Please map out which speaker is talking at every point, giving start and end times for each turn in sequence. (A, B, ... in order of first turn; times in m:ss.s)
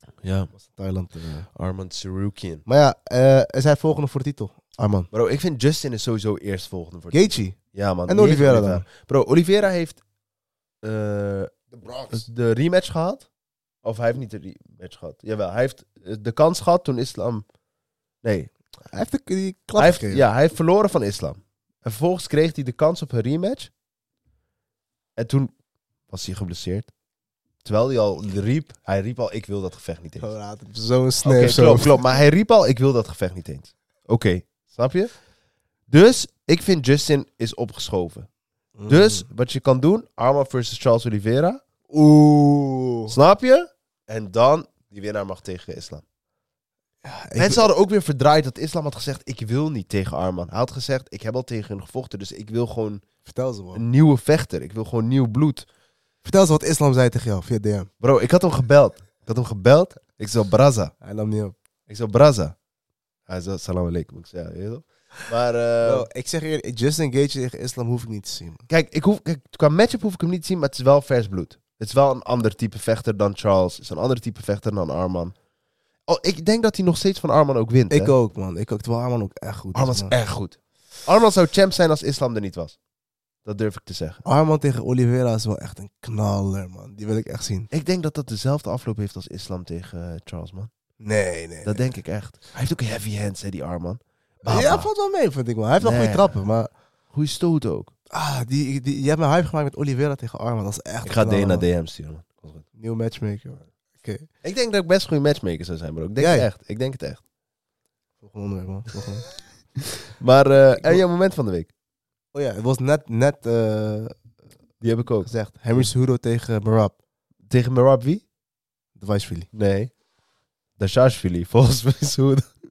0:00.2-0:00.5 A
0:00.5-0:01.5 B
0:01.5-0:02.6 A
0:02.6-0:05.1 B
0:05.1-0:10.0 A
0:07.1-0:08.8 B
0:10.8-0:11.6 A
0:11.7-0:12.2 B
0:12.1-0:13.3 A
0:13.8-0:17.4 A
0:18.2-0:18.5 A
0:18.9-0:20.2 B
0:19.8-0:23.7 A
0:25.2-0:25.5 A
0:26.1-0:26.9 A
0:27.6-0:30.3 A
0:30.2-0:31.9 B
0:31.2-0:35.1 A
0:35.9-0:38.3 A
0:38.8-0:39.2 B
0:38.9-0:41.6 A
0:41.9-0:43.2 B
0:43.1-0:46.0 A
0:47.0-0:47.7 B
0:47.4-0:53.0 A
0:53.2-0:53.8 B
0:53.7-0:55.6 A
0:56.2-0:57.9 B
0:58.0-1:00.9 A
1:01.0-1:01.5 B
1:01.9-1:02.5 A
1:03.3-1:06.1 A
1:05.8-1:08.7 B
1:08.7-1:15.3 A
1:16.1-1:18.1 A
1:17.9-1:20.1 B
1:19.7-1:22.8 A
1:23.4-1:24.2 A
1:24.2-1:27.7 B
1:27.7-1:30.7 A
1:31.0-1:31.8 B
1:31.6-1:34.9 A
1:34.4-1:36.7 B
1:35.8-1:36.4 A
1:37.1-1:37.9 A
1:38.1-1:41.6 B
1:41.0-1:42.6 A
1:42.8-1:44.3 B
1:44.4-1:47.2 A
1:46.2-1:46.5 B
1:48.2-1:49.3 B
1:50.2-1:51.7 A
1:52.3-1:54.1 B
1:54.8-1:55.8 A
1:55.2-1:57.0 B
1:57.5-1:58.2 A
1:59.0-1:59.5 B
1:59.5-1:59.9 A
2:00.8-2:02.5 A